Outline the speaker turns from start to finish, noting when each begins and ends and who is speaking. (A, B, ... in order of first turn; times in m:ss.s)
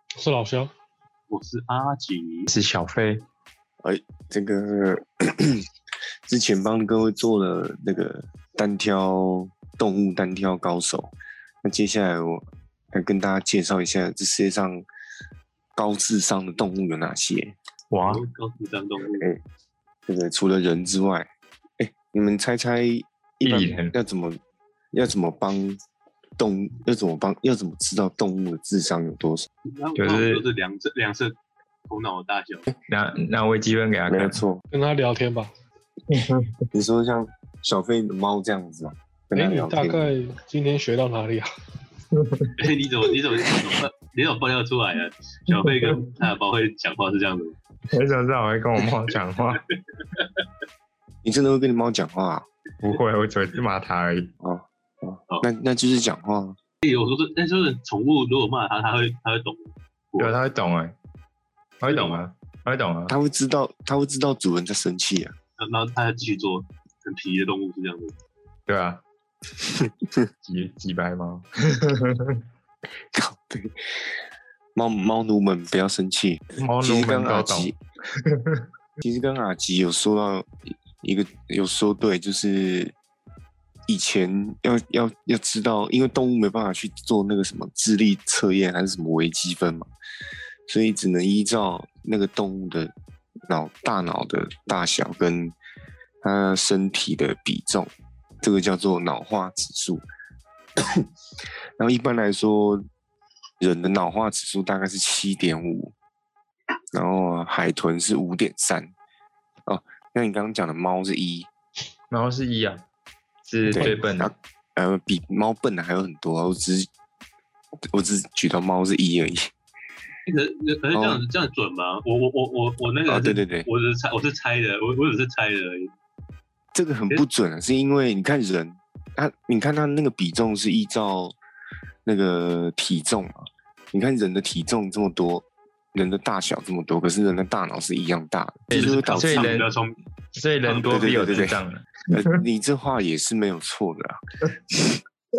0:00.2-0:00.7 A
0:01.3-0:02.5 B
0:02.5-0:03.2 C
0:03.8-0:05.6 D
0:06.3-0:14.8 D
0:15.8-0:17.6 D
0:17.9-0:18.2 C
0:18.1-0:19.3 B
0:19.1-0:19.4 D
0:20.1-0:21.3 D
0:21.8-0:24.4 D
0:23.4-0:23.9 C
0:24.9-0:25.8 D
0:26.4-0:29.5 D
0:29.6-0:31.4 B
0:30.0-0:30.4 C
0:31.9-0:32.6 B
0:32.9-0:34.4 C
0:34.1-0:34.6 D
0:34.7-0:35.5 A
0:36.1-0:36.5 C
0:36.7-0:40.1 D
0:39.3-0:41.5 A
0:42.1-0:42.5 C
0:42.6-0:47.6 B
0:45.5-0:46.0 C
0:47.9-0:49.6 C
0:50.1-0:50.4 B
0:51.2-0:52.5 D
0:52.8-0:54.3 C
0:54.4-0:56.6 D
0:56.8-1:00.3 B
1:00.2-1:00.9 C
1:01.8-1:03.2 C
1:01.9-1:02.2 B
1:03.1-1:05.3 D
1:05.6-1:08.1 B
1:08.7-1:09.0 C
1:09.6-1:10.2 D
1:10.4-1:12.4 C
1:13.1-1:13.8 D
1:14.7-1:17.8 D
1:16.6-1:18.6 C
1:19.0-1:20.5 D
1:21.0-1:22.9 D
1:23.9-1:29.9 D
1:30.7-1:32.9 D
1:33.5-1:35.6 D
1:36.2-1:40.0 D
1:40.8-1:41.0 D
1:41.8-1:42.8 D
1:43.6-1:45.9 D
1:46.9-1:48.9 D
1:49.6-1:51.5 D
1:52.1-1:52.8 C
1:53.4-1:54.3 C
1:53.6-1:56.9 D
1:57.9-1:59.5 D
2:00.2-2:05.9 B
2:00.9-2:01.2 D
2:03.1-2:03.7 D
2:06.7-2:11.4 D
2:12.0-2:19.5 D
2:18.7-2:19.7 C
2:18.7-2:19.9 B
2:20.3-2:22.4 C
2:20.6-2:21.6 B
2:20.9-2:21.6 D
2:22.1-2:24.2 D
2:24.7-2:25.0 D